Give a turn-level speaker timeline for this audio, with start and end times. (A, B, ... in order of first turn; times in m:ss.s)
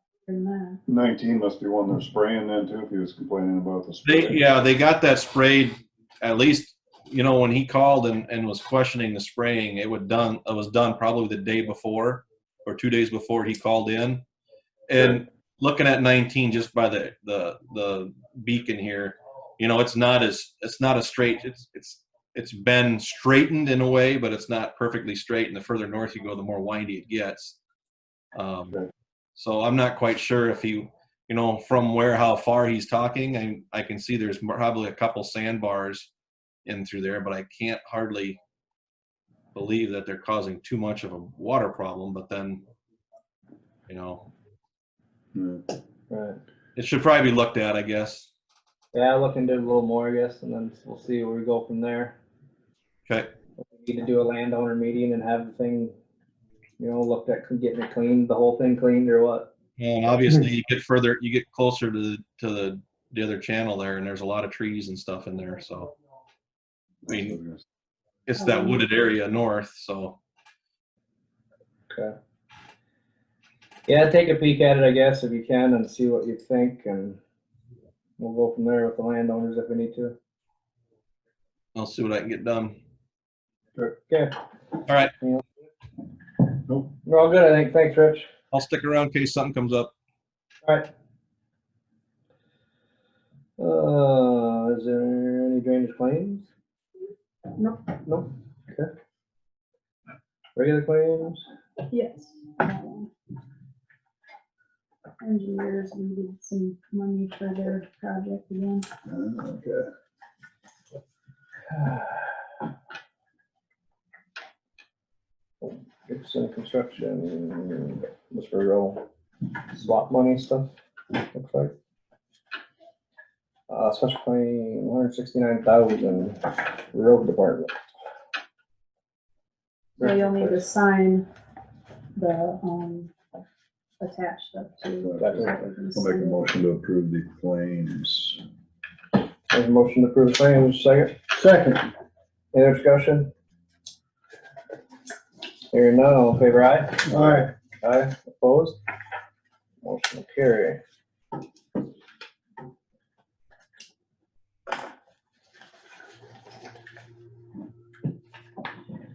0:00.3-0:00.8 A
0:00.9-0:04.4 B
0:04.0-0:14.2 C
0:14.9-0:27.6 C
0:15.0-0:15.2 B
0:28.3-0:28.8 C
0:29.4-0:36.1 C
0:36.7-0:38.4 C
0:39.6-0:42.6 C
0:43.9-0:44.3 C
0:45.3-0:45.6 B
0:46.1-0:46.4 D
0:46.8-0:48.3 C
0:48.9-0:52.2 D
0:53.1-0:53.3 C
0:53.6-0:56.0 D
0:56.8-0:59.5 D
0:59.8-1:05.9 C
1:07.0-1:07.6 B
1:07.1-1:07.4 C
1:08.3-1:10.2 C
1:08.4-1:08.8 A
1:11.9-1:12.2 D
1:13.9-1:17.2 D
1:18.2-1:20.2 D
1:21.8-1:22.8 C
1:23.8-1:24.3 D
1:24.9-1:25.1 C
1:26.7-1:26.9 B
1:27.0-1:28.2 D
1:28.5-1:29.9 C
1:33.6-1:36.5 D
1:38.0-1:38.9 D
1:40.6-1:41.4 D
1:41.9-1:43.1 A
1:45.2-1:48.9 A
1:49.1-1:49.9 B
1:51.7-1:52.3 D
1:55.6-1:59.0 D
1:59.6-2:00.7 D
2:01.3-2:01.8 D
2:03.7-2:07.7 D
2:10.0-2:10.6 D
2:10.0-2:11.3 A
2:12.2-2:13.1 A
2:14.0-2:16.5 A
2:15.0-2:18.4 B
2:15.2-2:15.5 D
2:19.5-2:21.8 D
2:22.5-2:23.3 D
2:25.7-2:28.8 D
2:27.1-2:27.5 B
2:29.8-2:30.8 D